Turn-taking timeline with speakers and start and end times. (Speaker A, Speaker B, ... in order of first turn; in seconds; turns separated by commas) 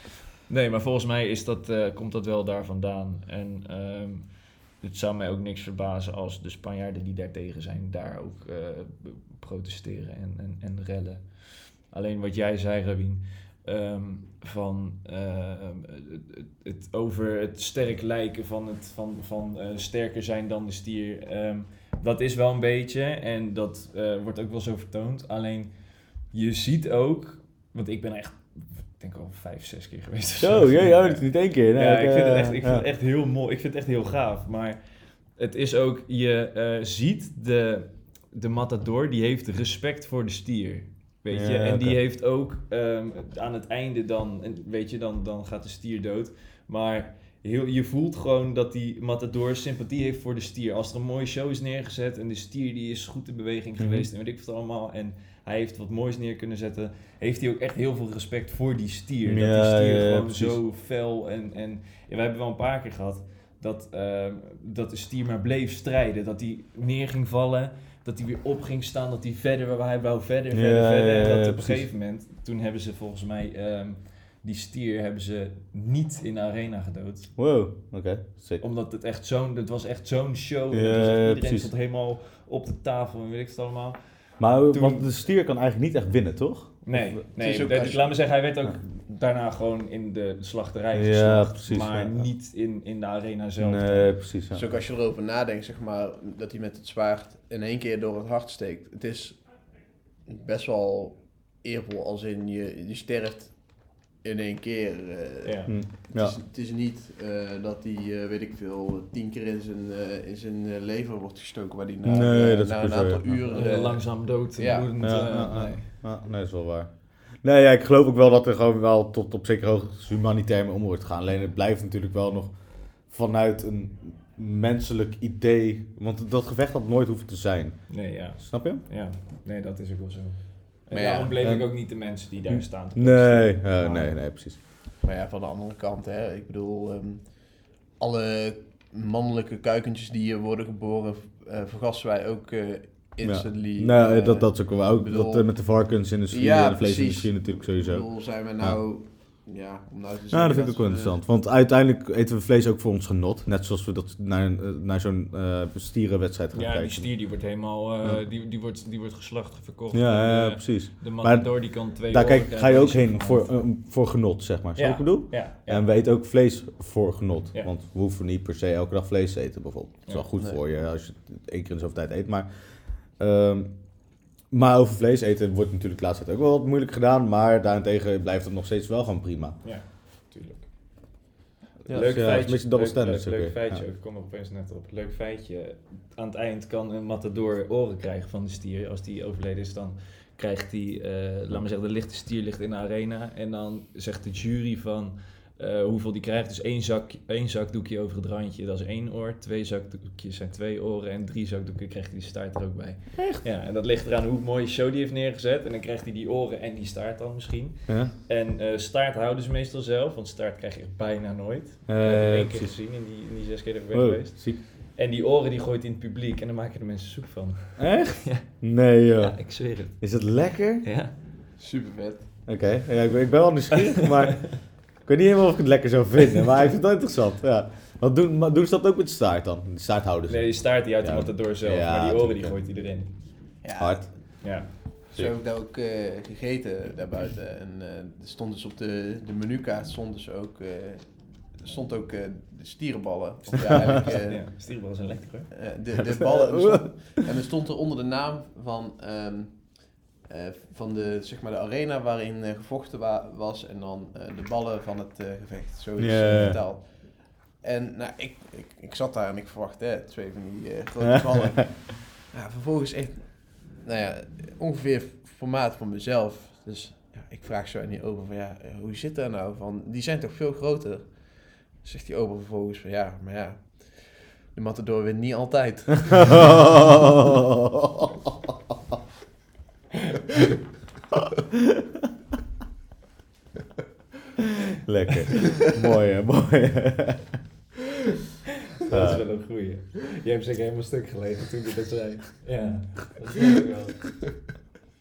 Speaker A: 0.5-77.4, Speaker B: 30.4-32.9, Speaker B: 41.3-42.0, Speaker B: 53.8-54.0, Speaker B: 59.3-60.6, Speaker B: 70.5-71.8, Speaker B: 77.3-78.6, Speaker A: 78.6-85.1, Speaker B: 80.7-81.7, Speaker B: 84.4-87.2, Speaker A: 86.8-94.2, Speaker C: 87.4-88.1, Speaker B: 90.9-92.3, Speaker B: 93.6-94.6, Speaker C: 94.5-99.6, Speaker C: 100.2-114.9, Speaker A: 105.4-105.7, Speaker B: 105.7-106.4, Speaker B: 112.0-113.4, Speaker A: 113.5-115.9, Speaker B: 115.0-128.8, Speaker A: 127.9-134.1, Speaker C: 130.9-131.3, Speaker B: 131.4-134.6, Speaker C: 135.0-145.7, Speaker B: 143.2-148.1, Speaker C: 146.3-151.2, Speaker B: 150.3-157.2, Speaker A: 156.5-163.7, Speaker B: 159.9-179.6, Speaker A: 164.8-165.8, Speaker A: 179.6-181.1, Speaker C: 181.8-182.2, Speaker A: 181.9-221.2, Speaker B: 181.9-183.8, Speaker B: 203.2-203.4, Speaker B: 207.9-208.1, Speaker B: 211.9-212.8, Speaker B: 213.9-214.6, Speaker B: 217.8-220.9, Speaker C: 221.6-222.3, Speaker B: 222.4-232.6, Speaker A: 230.3-233.5, Speaker C: 233.6-244.9, Speaker B: 233.8-234.3, Speaker A: 234.4-234.8, Speaker A: 244.1-245.7, Speaker C: 245.5-276.6, Speaker B: 246.0-247.0, Speaker B: 256.0-256.6, Speaker B: 276.6-277.0, Speaker B: 277.7-278.1, Speaker B: 284.8-287.4, Speaker A: 288.8-294.2, Speaker B: 288.9-289.2